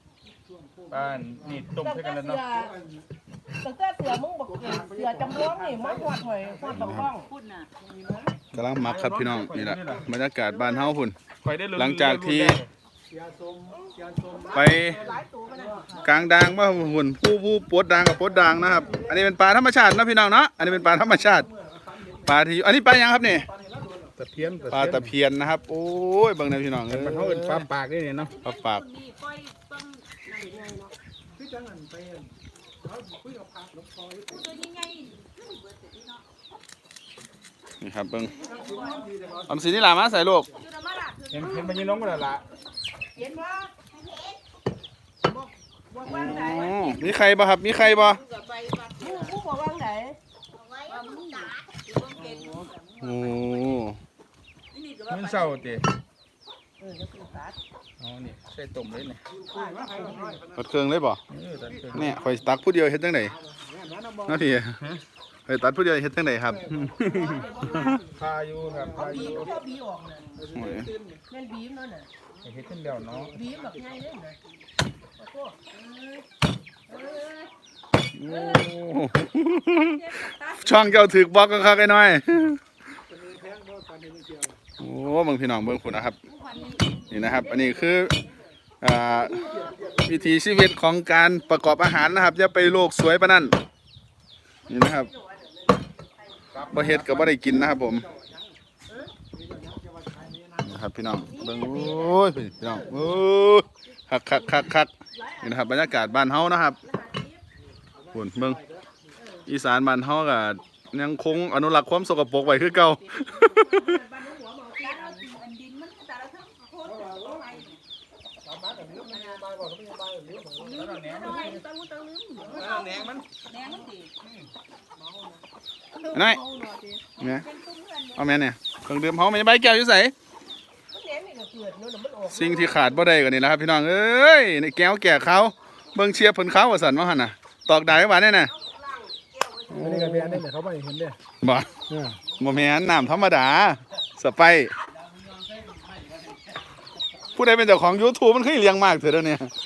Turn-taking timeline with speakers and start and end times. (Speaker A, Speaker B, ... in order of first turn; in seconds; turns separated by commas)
Speaker A: 0.4-1.7, Speaker B: 0.9-2.5, Speaker C: 1.8-2.7, Speaker A: 2.6-3.0, Speaker C: 3.6-7.3, Speaker A: 4.5-6.8, Speaker D: 6.7-7.1, Speaker E: 7.1-7.7, Speaker A: 7.8-8.4, Speaker D: 8.5-11.2, Speaker B: 8.5-10.1, Speaker C: 10.5-10.9, Speaker B: 11.4-12.7, Speaker D: 11.8-12.6, Speaker A: 13.1-16.0, Speaker C: 13.7-16.1, Speaker D: 14.5-15.0, Speaker D: 16.0-21.5, Speaker A: 18.3-19.1, Speaker B: 18.5-18.8, Speaker A: 20.6-22.4, Speaker D: 22.2-23.5, Speaker A: 23.4-24.7, Speaker B: 24.2-25.1, Speaker D: 24.7-27.7, Speaker B: 26.9-28.3, Speaker E: 28.1-30.4, Speaker D: 28.4-28.8, Speaker C: 30.2-30.9, Speaker A: 31.3-34.4, Speaker E: 34.3-36.2, Speaker D: 37.8-38.3, Speaker E: 38.4-40.0, Speaker A: 38.4-39.5, Speaker D: 39.5-40.5, Speaker E: 40.5-42.4, Speaker B: 41.3-42.4, Speaker C: 41.4-42.0, Speaker C: 43.1-43.7, Speaker C: 45.2-47.0, Speaker D: 46.0-48.2, Speaker E: 46.1-49.4, Speaker C: 49.0-50.2, Speaker E: 50.7-53.5, Speaker C: 50.8-51.2, Speaker C: 52.2-52.7, Speaker D: 53.0-54.0, Speaker E: 54.7-55.8, Speaker B: 55.1-55.9, Speaker C: 56.8-57.6, Speaker B: 58.0-59.2, Speaker A: 59.4-60.6, Speaker C: 59.5-60.4, Speaker D: 60.5-61.2, Speaker B: 61.3-62.4, Speaker A: 61.5-62.0, Speaker D: 61.9-63.4, Speaker A: 63.3-64.4, Speaker D: 64.3-64.8, Speaker D: 65.5-68.0, Speaker A: 66.5-67.7, Speaker B: 66.9-67.4, Speaker C: 67.0-68.0, Speaker E: 67.1-68.0, Speaker B: 68.0-69.6, Speaker A: 68.6-69.5, Speaker C: 68.9-70.2, Speaker E: 69.0-69.5, Speaker A: 70.3-71.2, Speaker D: 70.5-70.9, Speaker C: 71.3-72.1, Speaker B: 72.4-73.5, Speaker A: 72.4-74.0, Speaker C: 73.3-74.4, Speaker C: 75.2-76.2, Speaker E: 76.9-77.5, Speaker D: 78.1-80.0, Speaker E: 78.2-78.7, Speaker E: 79.7-81.1, Speaker D: 80.6-82.6, Speaker A: 83.1-84.6, Speaker D: 84.8-86.2, Speaker E: 86.2-87.8, Speaker C: 86.5-88.3, Speaker D: 87.1-88.2, Speaker D: 88.8-89.5, Speaker C: 89.3-89.8, Speaker A: 89.5-90.2, Speaker D: 90.0-93.6, Speaker D: 94.7-95.1, Speaker C: 94.7-97.2, Speaker B: 96.5-97.6, Speaker D: 96.7-98.1, Speaker A: 97.2-98.6, Speaker C: 98.9-99.1, Speaker A: 99.2-100.7, Speaker D: 100.6-104.9, Speaker C: 101.3-103.2, Speaker C: 105.1-107.4, Speaker D: 105.4-106.8, Speaker A: 107.9-109.0, Speaker D: 108.1-108.6, Speaker C: 109.2-109.5, Speaker D: 109.5-114.0, Speaker E: 112.4-113.6, Speaker C: 113.3-115.3, Speaker E: 114.8-117.8, Speaker A: 116.8-117.6, Speaker A: 118.4-120.8, Speaker E: 119.1-119.4, Speaker E: 120.5-121.6, Speaker C: 120.7-123.1, Speaker B: 120.7-121.6, Speaker E: 122.4-124.1, Speaker A: 122.6-123.2, Speaker A: 124.2-125.4, Speaker C: 126.0-127.0, Speaker D: 126.1-126.4, Speaker E: 127.2-128.4, Speaker D: 127.2-127.5, Speaker D: 128.2-130.1, Speaker C: 130.9-133.1, Speaker D: 132.3-138.5, Speaker C: 138.5-140.0, Speaker D: 139.8-140.2, Speaker A: 139.8-141.2, Speaker B: 139.8-140.4, Speaker D: 141.4-141.7, Speaker A: 141.9-142.2, Speaker D: 142.3-144.7, Speaker D: 147.3-149.5